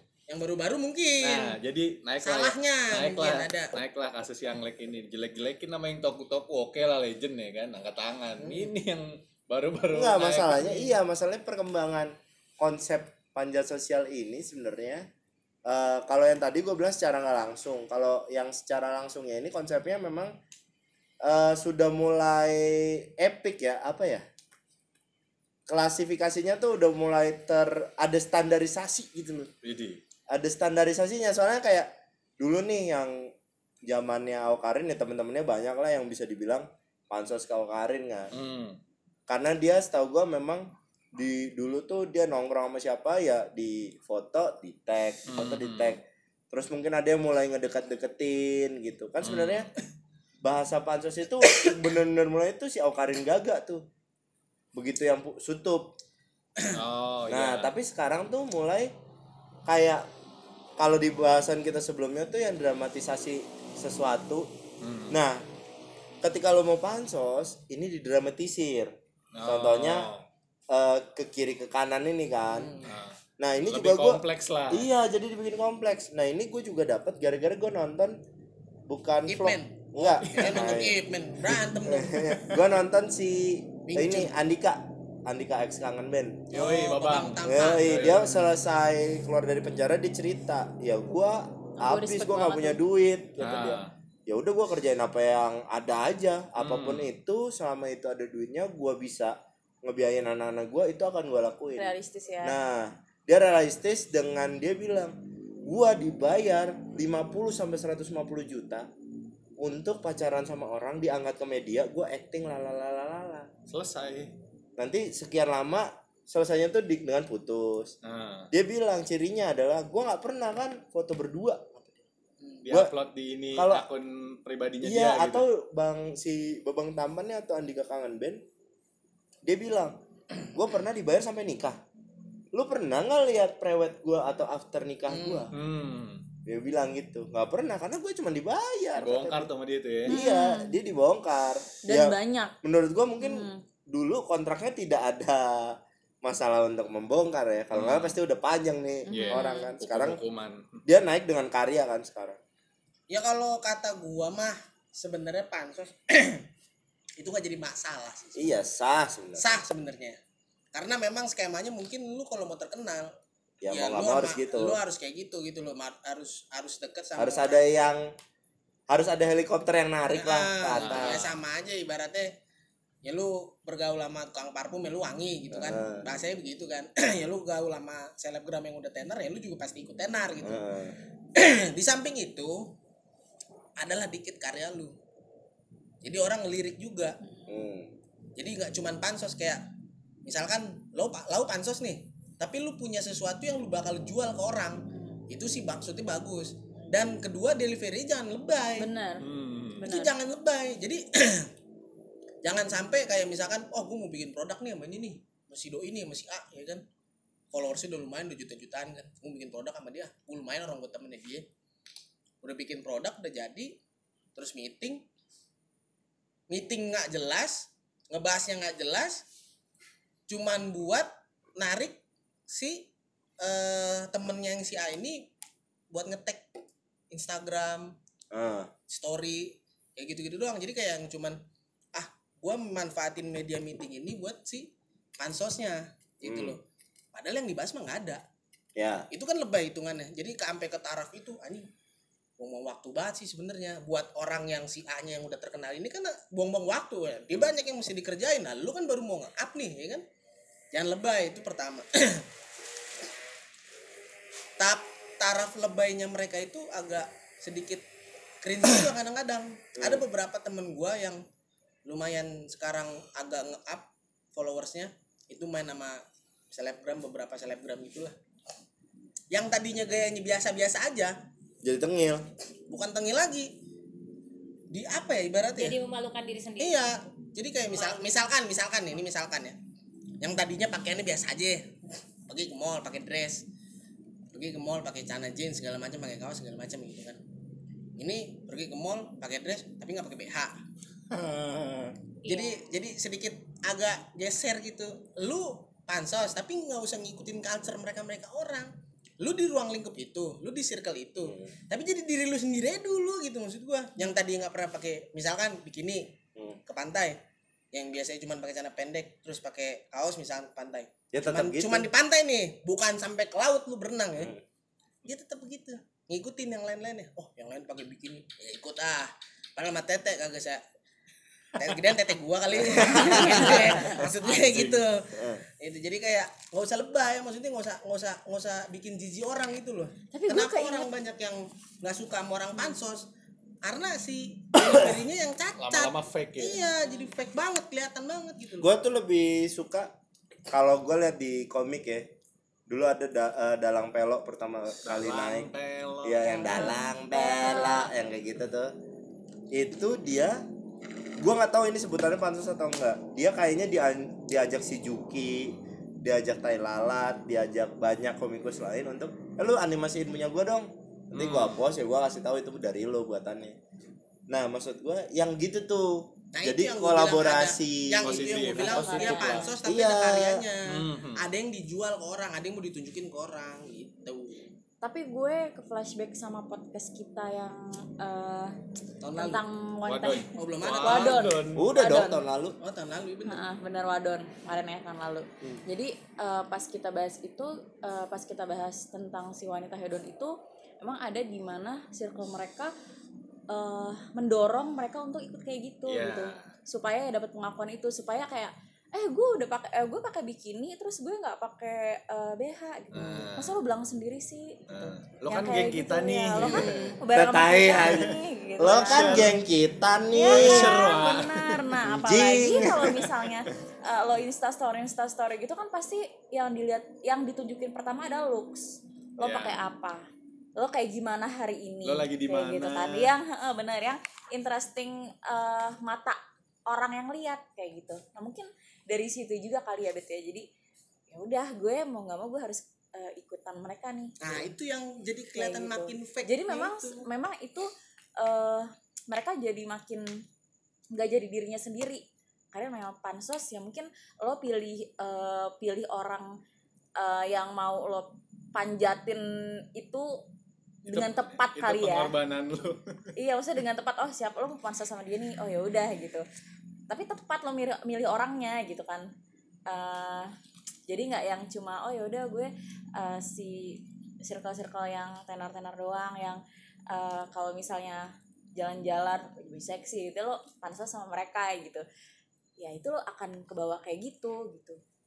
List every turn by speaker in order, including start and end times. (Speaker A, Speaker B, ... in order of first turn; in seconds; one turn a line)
Speaker A: 0.3-1.6
Speaker B: 1.2-10.9
Speaker A: 2.2-3.7
Speaker A: 8.4-8.6
Speaker C: 9.9-15.0
Speaker C: 15.7-20.3
Speaker C: 21.2-24.2
Speaker C: 25.7-29.5
Speaker B: 29.6-30.0
Speaker C: 30.3-33.3
Speaker C: 33.9-38.3
Speaker B: 38.3-38.8
Speaker C: 39.3-49.7
Speaker B: 45.3-46.0
Speaker B: 49.2-49.7
Speaker C: 50.4-53.8
Speaker C: 54.7-55.9
Speaker B: 56.6-57.7
Speaker C: 57.3-58.9
Speaker C: 59.6-60.0
Speaker C: 60.8-64.5
Speaker B: 64.8-65.2
Speaker C: 65.1-65.4
Speaker C: 66.2-68.9
Speaker B: 69.3-70.2
Speaker C: 69.4-70.1
Speaker C: 70.7-72.8
Speaker A: 72.5-72.9
Speaker B: 72.8-73.2
Speaker C: 73.4-78.2
Speaker B: 73.7-74.9
Speaker C: 78.9-86.5
Speaker A: 79.3-82.4
Speaker B: 80.3-80.7
Speaker A: 83.9-84.3
Speaker A: 86.5-88.1
Speaker B: 86.5-88.5
Speaker C: 87.4-105.1
Speaker D: 91.8-92.8
Speaker B: 93.4-93.9
Speaker B: 96.6-97.1
Speaker D: 101.8-102.6
Speaker C: 105.7-108.9
Speaker C: 109.6-113.5
Speaker B: 113.7-114.3
Speaker C: 114.8-117.9
Speaker B: 118.0-118.5
Speaker C: 118.5-122.0
Speaker B: 122.6-125.4
Speaker C: 123.5-123.8
Speaker C: 124.8-128.4
Speaker C: 129.4-129.9
Speaker C: 130.5-131.8
Speaker C: 132.5-135.5
Speaker A: 135.1-135.5
Speaker B: 135.5-136.2
Speaker C: 136.4-139.5
Speaker B: 139.0-140.2
Speaker C: 140.0-150.2
Speaker D: 140.1-140.7
Speaker D: 141.9-142.5
Speaker D: 143.2-143.6
Speaker B: 147.7-148.2
Speaker D: 149.1-149.7
Speaker B: 149.1-150.8
Speaker C: 150.8-152.4
Speaker A: 153.1-156.5
Speaker A: 157.2-158.5
Speaker C: 158.3-159.6
Speaker A: 159.3-160.2
Speaker A: 160.7-163.1
Speaker C: 163.6-164.8
Speaker A: 163.7-167.8
Speaker C: 167.2-168.1
Speaker C: 168.9-171.2
Speaker A: 170.1-172.3
Speaker B: 170.8-171.4
Speaker A: 173.0-180.6
Speaker C: 175.5-176.0
Speaker C: 180.4-181.0
Speaker A: 181.3-182.7
Speaker A: 183.8-184.9
Speaker A: 186.0-187.2
Speaker C: 187.5-187.9
Speaker A: 188.3-189.6
Speaker A: 190.2-198.9
Speaker D: 198.8-200.1
Speaker B: 199.2-199.9
Speaker A: 199.8-201.5
Speaker A: 202.4-206.8
Speaker A: 207.5-211.5
Speaker A: 212.4-213.8
Speaker A: 214.3-215.0
Speaker A: 216.5-219.2
Speaker A: 220.3-222.9
Speaker A: 223.4-225.3
Speaker A: 225.9-226.5
Speaker A: 227.1-227.9
Speaker C: 228.3-228.7
Speaker A: 228.9-231.4
Speaker A: 231.9-236.6
Speaker C: 236.2-236.6
Speaker A: 237.1-238.2
Speaker C: 238.8-239.1
Speaker A: 239.1-241.7
Speaker A: 242.4-250.0
Speaker A: 250.7-252.2
Speaker A: 254.6-257.8
Speaker A: 258.4-261.2
Speaker C: 259.8-260.0
Speaker A: 261.8-268.1
Speaker A: 269.3-271.1
Speaker C: 271.6-272.2
Speaker A: 272.7-273.5
Speaker A: 274.7-275.8
Speaker E: 275.6-276.9
Speaker A: 276.6-279.6
Speaker E: 277.7-278.0
Speaker A: 280.2-283.4
Speaker A: 284.3-287.2
Speaker A: 288.0-290.6
Speaker B: 291.1-291.9
Speaker E: 292.2-292.7
Speaker A: 292.2-306.1
Speaker C: 301.3-301.5
Speaker A: 306.7-307.2
Speaker A: 307.7-314.3
Speaker C: 311.1-311.9
Speaker A: 315.0-320.6
Speaker A: 321.6-333.1
Speaker C: 322.5-323.9
Speaker D: 323.2-323.9
Speaker B: 323.4-324.8
Speaker C: 325.1-325.4
Speaker D: 330.1-330.9
Speaker A: 333.6-338.7
Speaker C: 334.6-334.9
Speaker B: 335.6-336.7
Speaker C: 338.6-339.9
Speaker C: 340.5-342.1
Speaker C: 342.7-345.5
Speaker B: 344.8-346.7
Speaker C: 346.0-348.7
Speaker D: 346.5-347.9
Speaker C: 349.5-350.4
Speaker C: 351.2-363.6
Speaker B: 361.1-361.6
Speaker C: 364.3-368.4
Speaker A: 366.3-374.4
Speaker B: 368.0-369.5
Speaker D: 368.6-369.5
Speaker C: 369.6-370.5
Speaker B: 370.7-371.2
Speaker D: 374.8-378.5
Speaker A: 379.0-379.4
Speaker D: 379.2-380.3
Speaker B: 379.9-381.6
Speaker A: 380.3-381.3
Speaker D: 380.8-382.2
Speaker C: 381.5-382.6
Speaker A: 382.6-383.4
Speaker D: 383.2-392.7
Speaker D: 393.5-409.3
Speaker B: 395.9-396.5
Speaker B: 402.9-403.6
Speaker B: 404.7-407.0
Speaker C: 406.4-410.8
Speaker B: 408.6-409.4
Speaker D: 410.1-420.0
Speaker B: 410.3-411.8
Speaker C: 411.8-413.1
Speaker B: 412.6-413.1
Speaker B: 419.2-419.6
Speaker D: 420.6-430.4
Speaker B: 421.8-423.1
Speaker D: 431.1-434.5
Speaker A: 434.2-437.1
Speaker D: 435.3-440.1
Speaker D: 440.9-446.3
Speaker D: 447.0-449.2
Speaker D: 449.7-450.1
Speaker D: 450.9-452.1
Speaker B: 450.9-452.8
Speaker D: 453.2-456.2
Speaker D: 456.9-459.1
Speaker D: 459.7-460.3
Speaker D: 460.9-471.8
Speaker D: 472.6-474.8